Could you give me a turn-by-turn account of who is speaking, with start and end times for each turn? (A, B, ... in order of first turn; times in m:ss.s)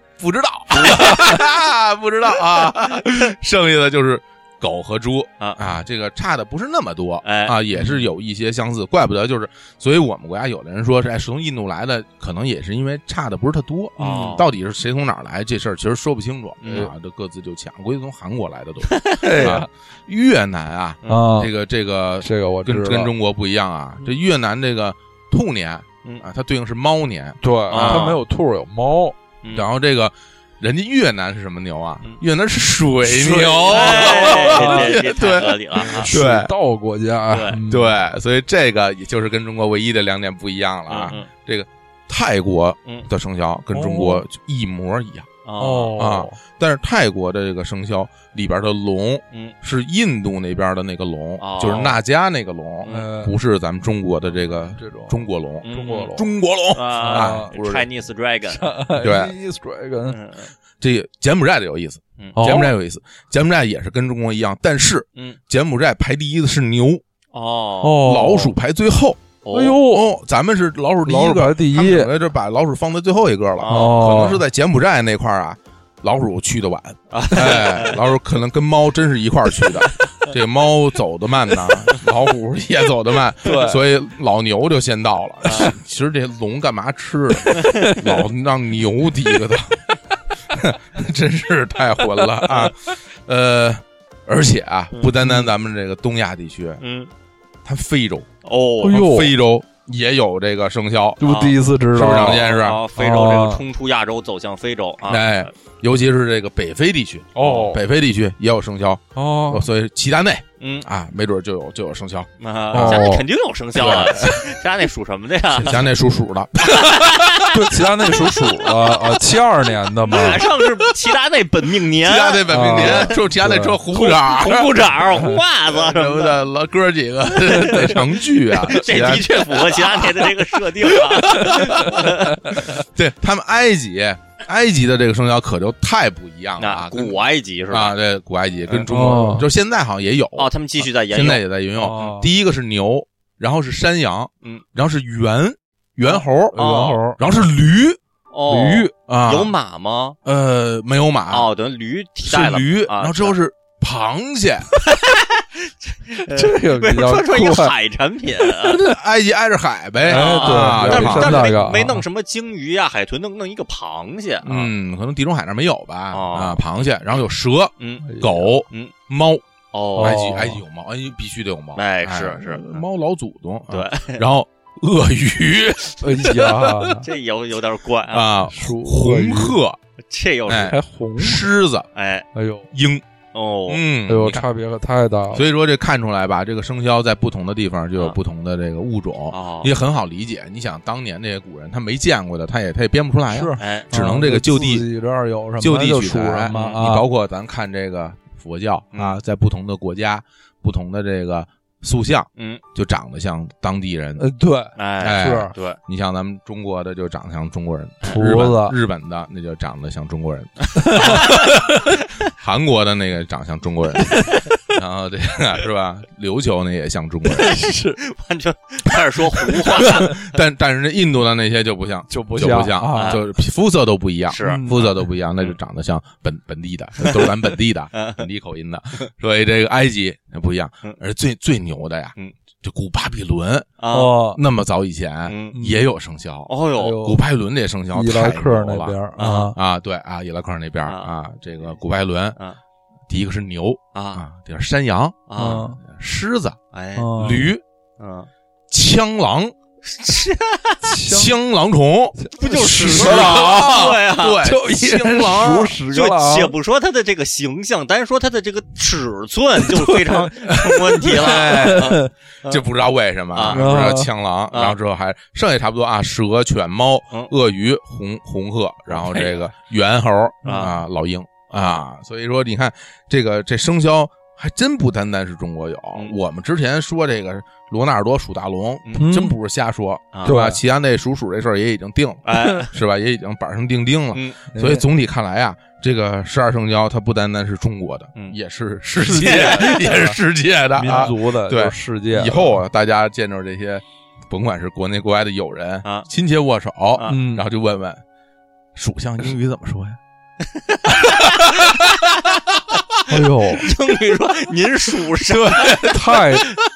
0:00.2-0:28.2 A
0:00.7-0:01.3 B
0:00.9-0:01.3 C
0:07.2-0:08.0 B
0:14.0-0:14.5 B
0:14.0-0:14.4 C
0:16.6-0:16.9 B
0:18.8-0:19.6 B
0:19.1-0:19.7 C
0:21.0-0:21.3 B
0:21.1-0:21.5 C
0:22.2-0:23.1 C
0:27.4-0:29.2 C
0:27.7-0:28.2 B
0:29.4-0:29.7 B
0:29.5-0:36.5 A
0:33.0-0:35.1 C
0:33.6-0:36.1 B
0:35.8-0:38.0 C
0:37.3-0:37.6 B
0:37.7-0:45.3 A
0:40.9-0:41.3 B
0:43.7-0:44.2 C
0:45.4-0:46.0 B
0:45.6-0:46.4 C
0:46.0-0:57.9 A
0:51.4-0:52.0 B
0:52.9-0:53.3 C
0:54.8-0:56.3 C
0:55.6-0:56.2 B
0:56.7-0:58.7 B
0:56.9-0:57.5 C
0:58.5-1:00.2 C
0:59.0-0:59.3 A
1:00.1-1:00.5 B
1:00.8-1:07.0 A
1:02.4-1:02.7 C
1:07.3-1:08.3 B
1:07.8-1:08.5 C
1:08.0-1:09.3 A
1:09.4-1:09.8 B
1:09.5-1:10.1 C
1:09.8-1:29.9 A
1:11.0-1:12.1 C
1:13.6-1:14.0 B
1:13.7-1:14.4 C
1:17.1-1:18.0 B
1:19.8-1:20.3 B
1:23.4-1:23.8 C
1:25.5-1:25.7 B
1:27.5-1:28.0 C
1:27.6-1:27.9 B
1:30.5-1:36.8 A
1:35.2-1:35.5 C
1:36.8-1:37.1 B
1:37.6-1:38.3 A
1:38.4-1:39.1 B
1:38.8-1:39.3 C
1:38.9-1:41.2 A
1:41.2-1:42.4 C
1:41.2-1:45.5 B
1:41.9-1:42.8 A
1:43.0-1:43.6 C
1:45.1-1:53.1 A
1:47.4-1:47.8 C
1:49.2-1:49.7 C
1:50.6-1:50.9 B
1:52.4-1:55.9 B
1:52.7-1:53.2 C
1:53.8-1:54.6 A
1:55.5-1:57.2 A
1:56.6-1:57.7 B
1:57.5-2:00.5 C
1:58.7-1:59.0 B
2:00.0-2:03.2 B
2:00.2-2:00.6 A
2:02.0-2:05.0 A
2:02.5-2:03.8 C
2:03.9-2:06.4 B
2:05.1-2:05.4 C
2:05.7-2:10.4 A
2:07.5-2:08.0 B
2:08.6-2:12.6 B
2:10.9-2:26.6 A
2:11.4-2:12.7 C
2:16.6-2:17.9 B
2:18.7-2:18.9 B
2:18.9-2:19.5 C
2:20.4-2:21.4 B
2:21.8-2:22.3 C
2:26.5-2:27.2 C
2:26.5-2:27.0 B
2:27.2-2:28.0 A
2:28.3-2:30.2 B
2:28.5-2:28.9 C
2:29.1-2:29.5 A
2:30.2-2:31.5 A
2:31.3-2:33.4 B
2:32.3-2:34.8 A
2:34.8-2:38.8 B
2:36.2-2:37.7 C
2:38.6-2:41.5 A
2:40.1-2:44.7 B
2:40.1-2:42.0 C
2:44.4-2:49.4 A
2:46.1-2:46.6 B
2:47.8-2:48.1 B
2:48.0-2:48.4 C
2:48.6-2:48.9 B
2:49.7-2:50.2 B
2:50.0-2:50.6 C
2:50.0-2:57.0 A
2:51.8-2:52.8 B
2:53.7-2:54.2 B
2:56.0-2:57.0 C
2:57.0-2:58.3 B
2:58.1-2:59.8 A
2:58.5-2:59.6 C
3:00.1-3:00.8 B
3:00.5-3:01.9 A
3:00.7-3:01.5 C
3:02.0-3:02.3 B
3:02.4-3:02.7 C
3:02.7-3:03.0 A
3:03.3-3:03.8 B
3:03.7-3:04.4 A
3:04.1-3:05.4 C
3:05.3-3:14.9 A
3:09.3-3:09.7 B
3:13.3-3:17.1 C
3:13.6-3:13.9 B
3:15.6-3:24.3 A
3:16.5-3:16.9 B
3:22.4-3:22.6 B
3:24.2-3:25.5 C
3:24.8-3:25.8 B
3:25.0-3:37.6 A
3:28.0-3:28.8 C
3:30.8-3:31.5 C
3:30.9-3:31.5 B
3:34.1-3:34.4 C
3:37.4-3:40.3 B
3:37.4-3:38.0 C
3:39.4-3:53.8 A
3:42.1-3:43.2 C
3:43.0-3:43.2 B
3:44.3-3:44.7 B
3:44.4-3:45.0 C
3:47.0-3:47.4 B
3:47.9-3:48.2 B
3:53.8-3:54.2 B
3:53.9-3:54.4 C
3:54.3-4:02.4 A
3:55.3-3:55.6 B
3:55.5-3:55.8 C
3:56.5-3:57.0 B
3:56.8-3:57.2 C
3:57.9-3:59.6 C
3:59.2-3:59.5 B
4:00.8-4:01.1 B
4:03.1-4:05.3 A
4:03.9-4:04.2 B
4:05.3-4:05.7 B
4:05.4-4:05.8 C
4:05.8-4:06.6 A
4:06.7-4:07.1 B
4:07.0-4:07.5 C
4:07.2-4:07.6 A
4:08.0-4:08.3 B
4:08.7-4:09.6 A
4:09.8-4:10.8 B
4:10.8-4:11.3 C
4:11.1-4:12.2 A
4:12.2-4:16.6 C
4:12.4-4:14.4 B
4:12.8-4:15.8 A
4:15.9-4:22.7 B
4:19.6-4:22.1 C
4:20.5-4:58.0 A
4:23.3-4:23.7 B
4:23.5-4:24.1 C
4:24.5-4:24.8 B
4:28.9-4:29.5 B
4:30.4-4:30.8 B
4:31.5-4:31.8 B
4:39.0-4:39.4 C
4:40.2-4:40.6 C
4:42.2-4:42.8 B
4:44.1-4:44.4 B
4:44.5-4:44.9 C
4:49.0-4:50.2 C
4:49.2-4:50.0 B
4:50.8-4:52.6 C
4:57.1-4:57.4 C
4:58.8-5:00.0 A
5:00.5-5:02.3 B
5:00.9-5:01.9 A
5:03.1-5:03.7 C
5:03.5-5:06.0 B
5:05.2-5:06.2 A
5:05.8-5:06.6 C